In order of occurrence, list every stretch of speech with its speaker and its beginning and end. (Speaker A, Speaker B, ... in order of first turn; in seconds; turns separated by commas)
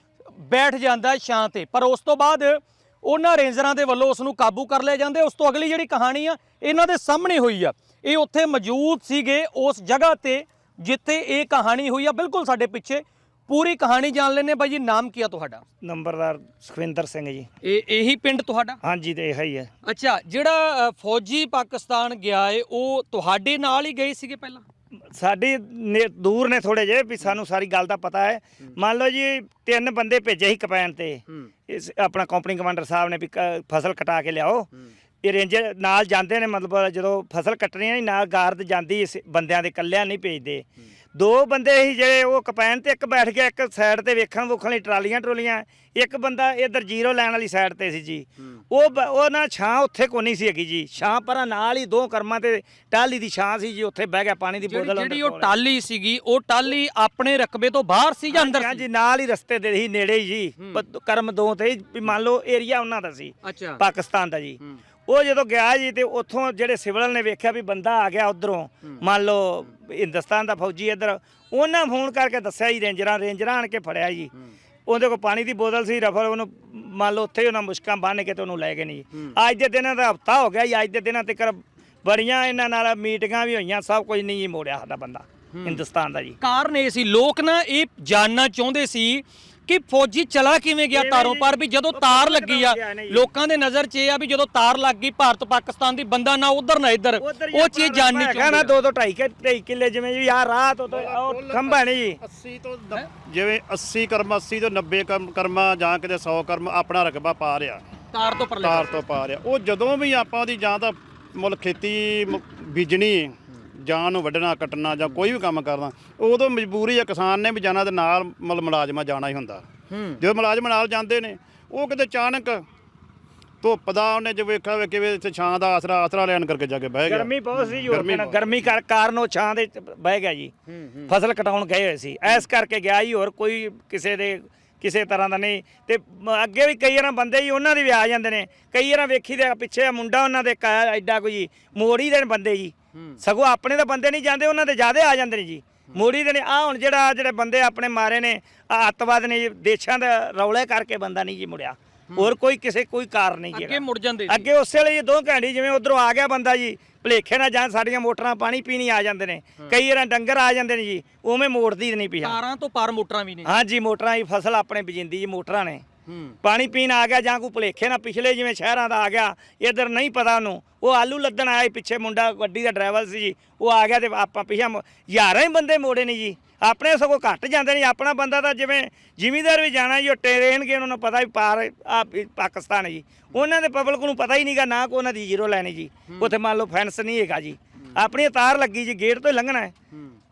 Speaker A: 0.4-15.6, Speaker B: 15.8-17.5, Speaker A: 17.6-18.8, Speaker B: 18.8-19.7, Speaker A: 19.8-24.6, Speaker B: 25.1-34.7, Speaker B: 35.2-55.5, Speaker A: 54.6-58.8, Speaker B: 58.3-74.3, Speaker A: 63.4-63.8, Speaker B: 74.9-86.4, Speaker A: 86.4-98.7, Speaker B: 90.9-93.3, Speaker B: 97.2-102.2, Speaker C: 100.9-107.8, Speaker A: 108.1-109.1, Speaker C: 108.6-122.6, Speaker C: 123.6-127.3, Speaker B: 127.0-130.5, Speaker C: 127.9-128.4, Speaker B: 131.1-162.4, Speaker A: 153.5-154.4, Speaker A: 162.2-163.5, Speaker B: 163.4-165.8, Speaker A: 166.1-166.3, Speaker B: 166.4-189.7